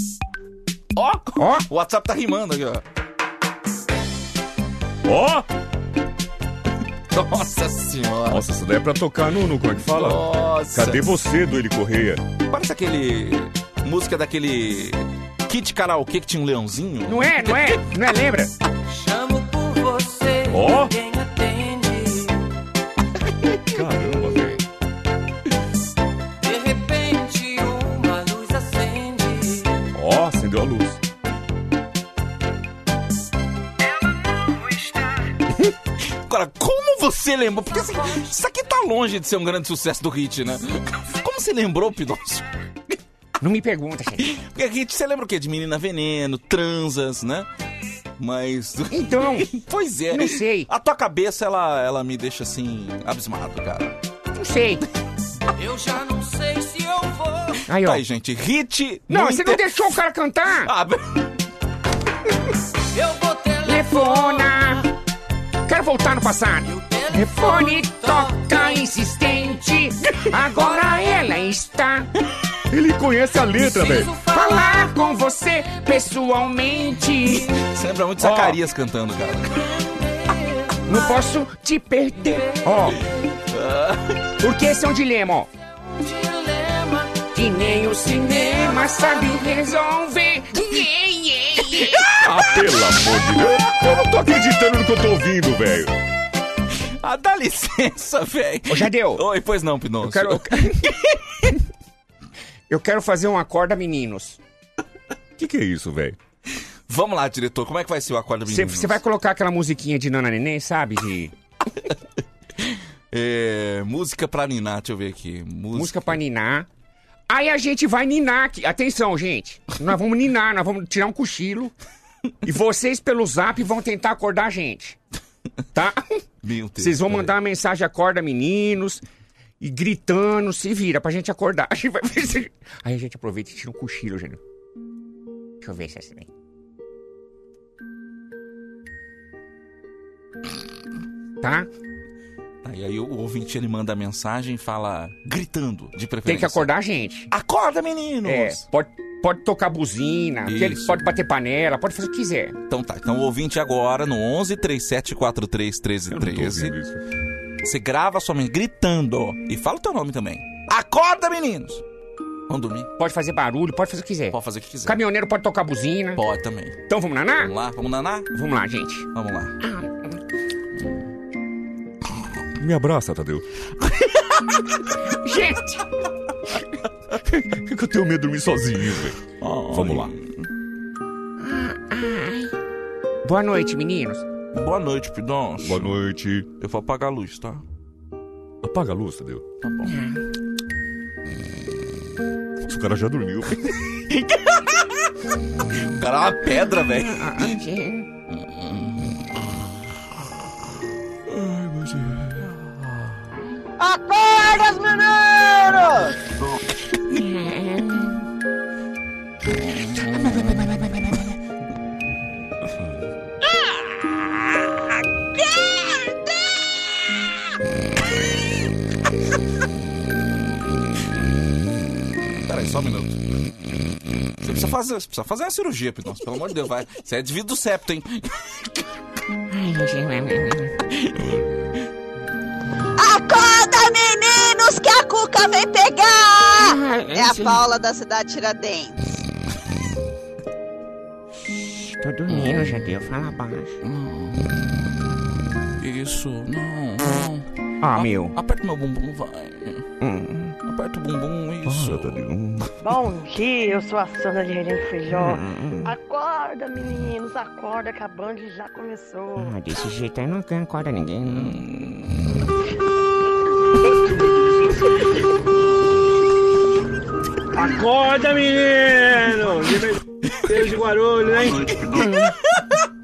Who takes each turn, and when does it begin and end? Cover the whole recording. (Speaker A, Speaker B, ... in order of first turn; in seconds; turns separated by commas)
Speaker A: 0.9-2.8, Speaker B: 1.4-1.6, Speaker C: 5.0-5.5, Speaker A: 7.1-8.4, Speaker C: 8.3-12.2, Speaker A: 9.9-11.1, Speaker A: 12.5-17.8, Speaker B: 17.1-18.5, Speaker D: 18.9-22.4, Speaker C: 20.5-20.9, Speaker C: 23.7-24.6, Speaker D: 26.4-29.8, Speaker C: 29.9-31.0, Speaker A: 36.0-42.5, Speaker B: 43.4-44.3, Speaker A: 44.2-47.5, Speaker A: 48.2-54.0, Speaker B: 48.9-49.6, Speaker B: 50.1-50.7, Speaker B: 54.4-54.8, Speaker D: 55.6-57.6, Speaker B: 57.7-58.0, Speaker A: 57.8-59.8, Speaker B: 59.1-60.7, Speaker A: 60.6-61.2, Speaker D: 62.9-64.8, Speaker B: 63.6-64.9, Speaker B: 65.7-72.1, Speaker D: 66.7-68.6, Speaker C: 72.7-74.1, Speaker D: 73.6-74.9, Speaker B: 74.3-77.6, Speaker A: 77.3-79.8, Speaker B: 78.2-78.6, Speaker D: 80.3-80.8, Speaker B: 80.8-83.0, Speaker A: 83.5-84.2, Speaker B: 84.4-85.5, Speaker D: 85.8-87.3, Speaker B: 87.3-92.1, Speaker C: 92.1-95.9, Speaker A: 97.0-100.9, Speaker B: 98.7-99.2, Speaker B: 100.0-100.9, Speaker B: 102.7-104.4, Speaker C: 105.4-106.2, Speaker A: 106.9-109.0, Speaker B: 108.5-111.3, Speaker A: 112.6-116.2, Speaker B: 115.7-116.7, Speaker B: 117.3-121.7, Speaker B: 122.5-125.0, Speaker B: 125.7-126.0, Speaker A: 126.4-127.3, Speaker B: 126.8-129.0, Speaker B: 129.6-134.4, Speaker B: 135.6-136.3, Speaker B: 141.4-141.7, Speaker A: 142.6-146.7, Speaker B: 146.3-147.3, Speaker A: 147.3-148.6, Speaker B: 148.2-152.6, Speaker A: 150.5-151.1, Speaker A: 152.7-156.8, Speaker C: 156.1-157.0, Speaker A: 157.6-161.8, Speaker A: 162.5-162.9, Speaker B: 163.0-166.2, Speaker A: 164.3-165.0, Speaker A: 166.2-166.8, Speaker B: 166.9-167.5, Speaker A: 167.4-168.3, Speaker B: 168.3-169.1, Speaker A: 169.1-169.6, Speaker C: 172.6-173.4, Speaker B: 175.1-175.8, Speaker C: 177.3-180.1, Speaker A: 179.4-180.5, Speaker B: 181.5-182.5, Speaker B: 183.2-184.2, Speaker A: 184.5-185.9, Speaker C: 185.6-186.5, Speaker A: 186.6-187.6, Speaker C: 188.6-189.4, Speaker A: 189.6-190.0, Speaker B: 189.9-190.2, Speaker C: 192.6-193.7, Speaker A: 194.1-195.1, Speaker A: 195.8-197.6, Speaker B: 197.1-198.0, Speaker A: 198.3-199.4, Speaker A: 201.5-202.7, Speaker E: 203.8-206.0, Speaker B: 207.2-207.9, Speaker A: 209.6-210.9, Speaker A: 222.2-223.2, Speaker A: 224.4-228.6, Speaker B: 229.6-230.7, Speaker F: 233.0-239.1, Speaker B: 236.7-237.5, Speaker B: 242.0-243.7, Speaker A: 242.3-242.8, Speaker A: 243.8-245.1, Speaker A: 245.8-249.9, Speaker B: 247.8-248.3, Speaker B: 250.0-250.5, Speaker A: 250.7-252.2, Speaker C: 251.7-252.7, Speaker G: 252.8-259.6, Speaker B: 255.4-255.8, Speaker B: 259.4-261.5, Speaker A: 261.2-262.3, Speaker H: 267.6-271.6, Speaker A: 271.5-272.3